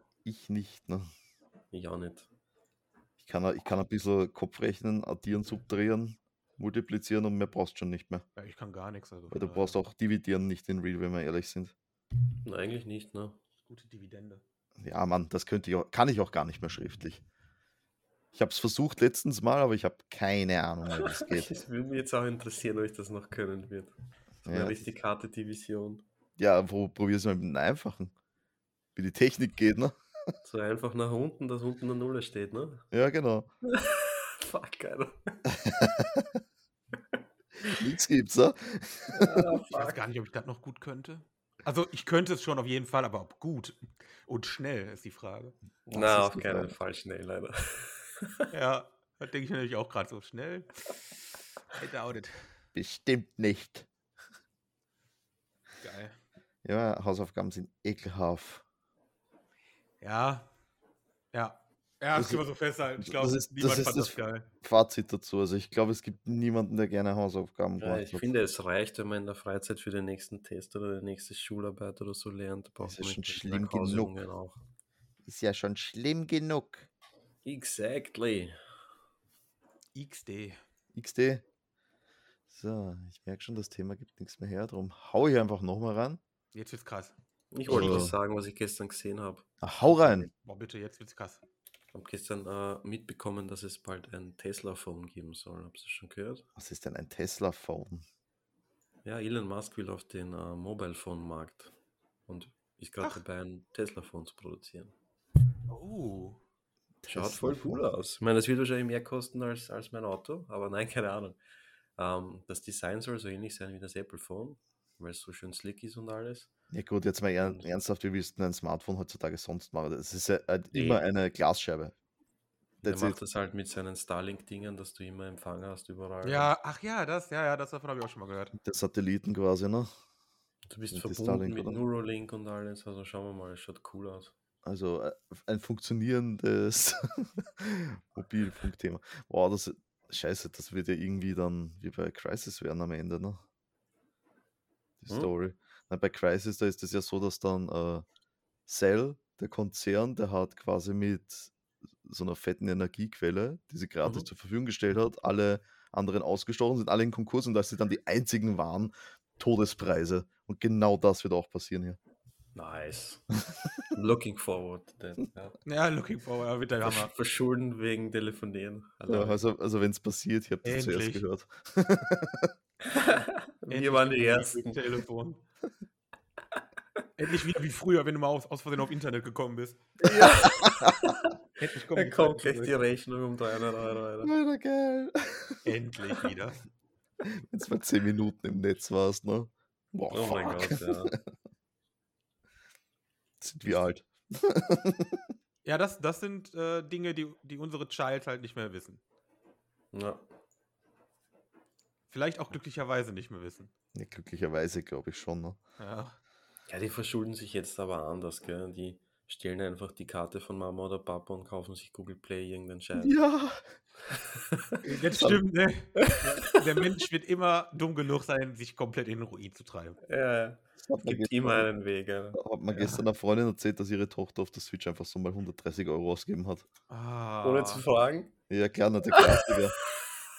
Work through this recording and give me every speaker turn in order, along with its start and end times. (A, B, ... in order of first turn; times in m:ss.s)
0:00.2-0:01.1 A
0:01.7-0:02.3 B
0:03.2-0:08.2 A
0:08.4-0:09.8 C
0:09.3-0:11.7 A
0:12.4-0:13.4 B
0:13.7-0:14.4 C
0:14.8-0:17.2 A
0:18.3-0:21.6 A
0:20.9-0:23.9 B
0:24.4-0:26.0 B
0:24.5-0:24.8 A
0:26.4-0:28.1 A
0:29.0-0:30.3 A
0:30.4-0:32.8 B
0:32.9-0:33.5 A
0:33.7-0:35.4 B
0:35.5-0:36.4 A
0:37.6-0:39.5 A
0:39.1-0:40.0 B
0:39.7-0:45.6 C
0:45.9-0:48.5 B
0:45.9-0:46.8 A
0:48.5-0:50.9 C
0:51.7-0:52.4 C
0:52.8-0:53.9 A
0:55.8-0:56.2 C
0:56.6-0:58.6 A
1:00.0-1:00.5 C
1:01.3-1:04.5 C
1:02.1-1:02.4 A
1:03.0-1:08.3 A
1:07.8-1:14.6 B
1:12.8-1:14.1 A
1:15.2-1:16.9 A
1:17.4-1:18.6 B
1:20.0-1:20.6 C
1:20.9-1:21.4 A
1:22.5-1:26.2 A
1:26.5-1:27.2 C
1:27.5-1:29.5 B
1:27.7-1:28.2 A
1:29.6-1:30.3 A
1:30.1-1:31.4 C
1:31.9-1:36.4 B
1:36.6-1:38.0 A
1:39.0-1:41.7 B
1:42.3-1:44.9 B
1:45.7-1:46.4 C
1:47.0-1:47.8 A
1:47.1-1:51.4 B
1:52.0-1:56.5 B
1:56.7-2:01.9 A
1:57.4-1:57.7 B
2:00.7-2:01.0 B
2:02.8-2:03.2 A
2:02.8-2:06.5 B
2:06.2-2:08.6 C
2:08.6-2:09.9 A
2:10.7-2:14.3 B
2:10.9-2:11.8 A
2:14.6-2:23.4 A
2:25.0-2:28.0 A
2:28.7-2:31.5 A
2:32.0-2:42.0 A
2:42.6-2:43.2 B
2:43.9-2:45.6 B
2:45.7-2:47.1 C
2:46.8-2:49.4 B
2:49.1-2:52.5 A
2:50.6-2:51.2 C
2:52.9-2:55.0 B
2:53.7-2:55.4 C
2:57.2-3:00.3 C
3:00.1-3:01.3 B
3:00.1-3:01.0 A
3:01.6-3:02.8 C
3:01.9-3:04.3 B
3:04.2-3:05.7 A
3:05.6-3:06.6 C
3:07.2-3:11.2 A
3:10.1-3:11.1 B
3:13.4-3:15.3 A
3:15.6-3:19.0 C
3:19.9-3:20.2 B
3:22.1-3:23.7 C
3:23.9-3:25.6 A
3:25.8-3:26.2 C
3:26.7-3:33.2 B
3:33.0-3:33.6 A
3:34.2-3:34.8 B
3:34.8-3:40.0 C
3:35.1-3:35.4 A
3:36.0-3:36.6 B
3:40.0-3:42.4 B
3:40.8-3:41.7 A
3:42.3-3:46.6 A
3:46.9-3:47.8 C
3:47.4-3:48.3 B
3:48.5-3:49.8 A
3:49.1-3:49.7 B